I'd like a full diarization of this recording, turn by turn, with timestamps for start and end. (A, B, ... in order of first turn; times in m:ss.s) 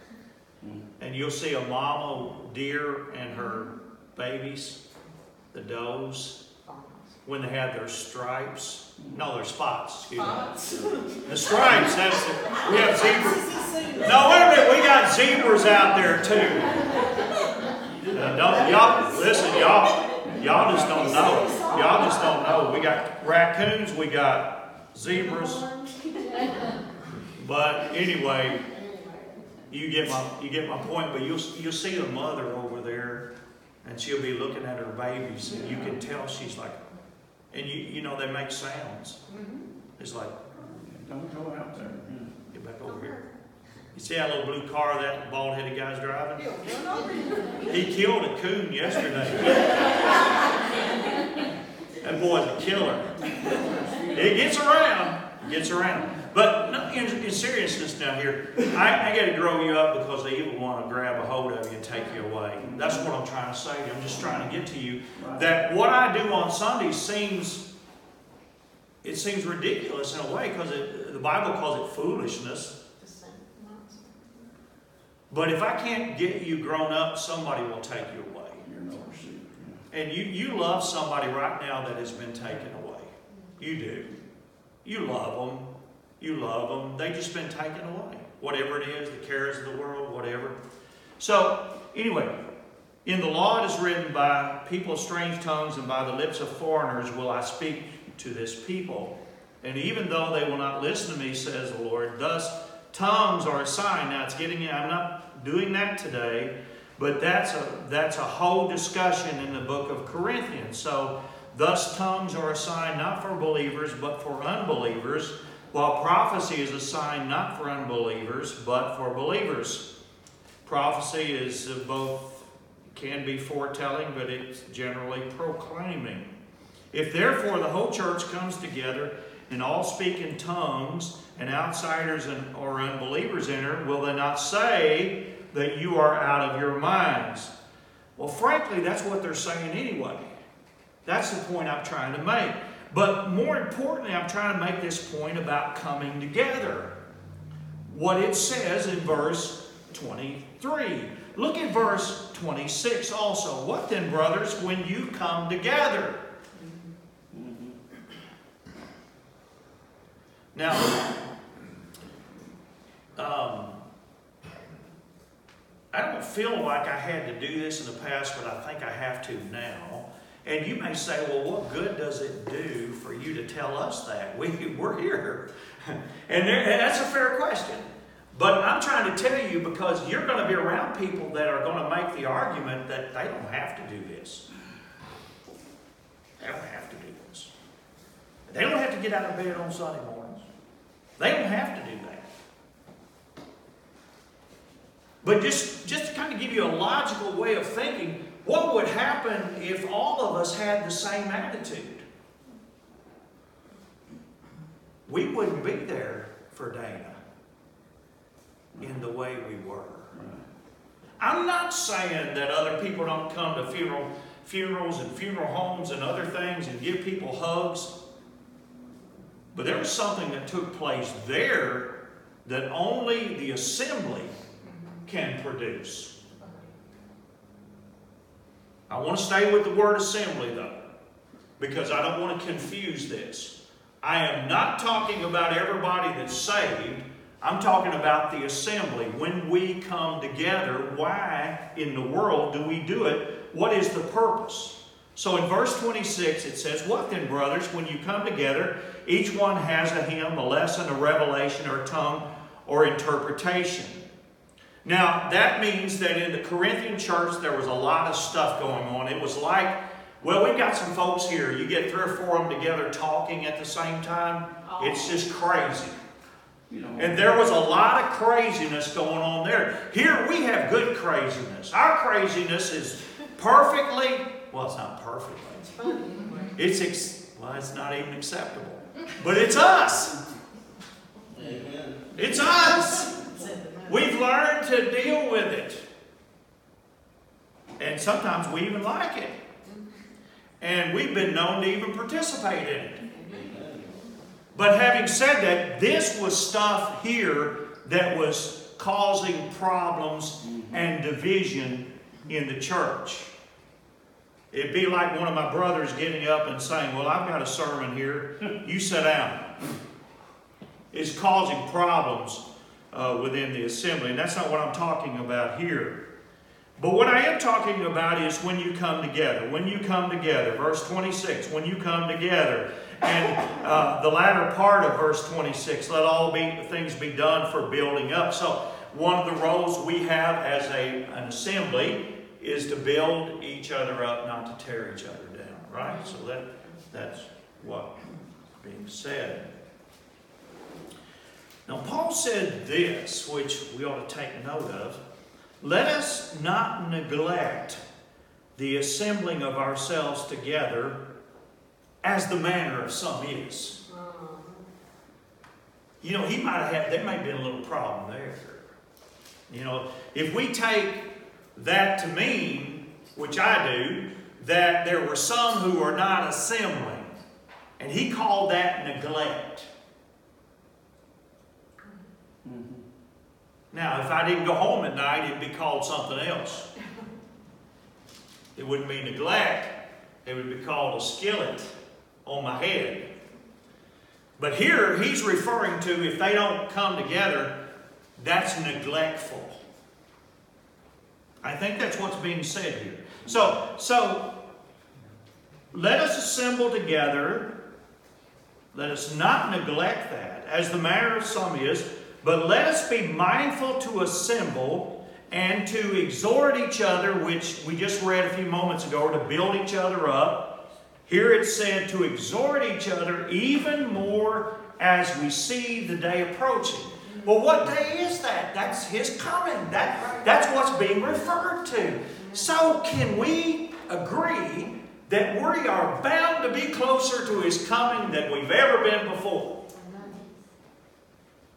0:00.6-0:00.9 A
0:01.0-0:04.8 B
0:05.5-0:06.4 B
0:06.6-0:07.2 C
0:07.2-0:10.6 B
0:09.0-0:09.2 A
0:10.1-0:15.6 C
0:11.2-0:17.0 B
0:13.2-0:14.4 D
0:16.6-0:17.5 C
0:17.8-0:19.5 D
0:18.1-0:25.7 B
0:18.8-0:22.9 C
0:20.4-0:20.9 A
0:20.5-0:21.6 D
0:25.0-0:26.8 C
0:27.2-0:28.6 B
0:28.6-0:29.6 C
0:29.7-0:33.3 B
0:33.8-0:36.8 B
0:37.5-0:39.2 B
0:39.3-0:39.7 C
0:40.0-0:40.4 B
0:40.6-0:42.3 A
0:42.5-0:43.2 B
0:42.9-0:43.3 C
0:43.9-0:46.5 B
0:46.4-0:47.8 C
0:47.6-0:50.1 B
0:52.0-0:53.2 B
0:53.8-0:54.1 A
0:54.1-1:07.7 B
1:02.6-1:03.1 A
1:05.2-1:05.5 A
1:09.0-1:12.8 B
1:13.0-1:14.5 C
1:15.3-1:18.6 B
1:18.6-1:19.8 A
1:19.9-1:24.1 B
1:24.8-1:30.6 B
1:31.2-1:32.4 B
1:33.0-1:59.9 B
2:00.6-2:06.3 B
2:06.9-2:17.5 B
2:18.2-2:20.3 B
2:21.0-2:27.0 B
2:27.8-2:36.2 B
2:36.6-2:36.9 C
2:37.3-2:37.8 A
2:40.5-2:41.1 B
2:43.2-2:43.8 B
2:45.9-3:04.4 B
3:06.4-3:07.5 B
3:08.5-3:10.4 B
3:11.2-3:12.3 B
3:15.2-3:22.0 B
3:25.0-3:27.2 B
3:28.7-3:29.0 A
3:28.8-3:30.1 B
3:30.1-3:30.5 A
3:31.2-3:37.9 B
3:39.5-3:44.3 B
3:44.6-3:45.0 C
3:45.1-3:46.1 B
3:46.3-3:46.7 C
3:48.9-3:50.9 B
3:51.6-4:14.0 B
4:14.8-4:26.0 B
4:24.6-4:25.2 C
4:26.7-4:27.4 A
4:27.0-4:35.7 B
4:35.6-4:36.6 C
4:36.5-4:40.2 B
4:41.3-4:42.7 D
4:42.1-4:43.2 B
4:43.1-4:44.0 C
4:43.8-4:45.8 B
4:47.8-4:49.4 B
4:50.6-4:53.1 B
4:53.0-4:53.6 C
4:53.2-4:54.1 D
4:54.5-5:03.3 B
5:00.5-5:00.7 A
5:04.5-5:09.6 B
5:10.9-5:16.0 B
5:16.8-5:39.5 B
5:41.6-5:45.0 B
5:45.6-5:47.8 B
5:48.6-5:51.0 B
5:52.0-5:53.8 B
5:53.9-5:54.6 C
5:56.0-5:58.7 B
5:59.5-6:07.1 B
6:07.8-6:09.7 B
6:12.4-6:12.8 A
6:13.7-6:16.7 B
6:18.5-6:21.7 B
6:22.2-6:23.1 B
6:24.4-6:27.6 B
6:28.2-6:29.6 B
6:31.4-6:34.4 B
6:35.7-6:37.6 B
6:38.7-7:09.6 B
7:02.2-7:02.4 C
7:09.7-7:10.3 C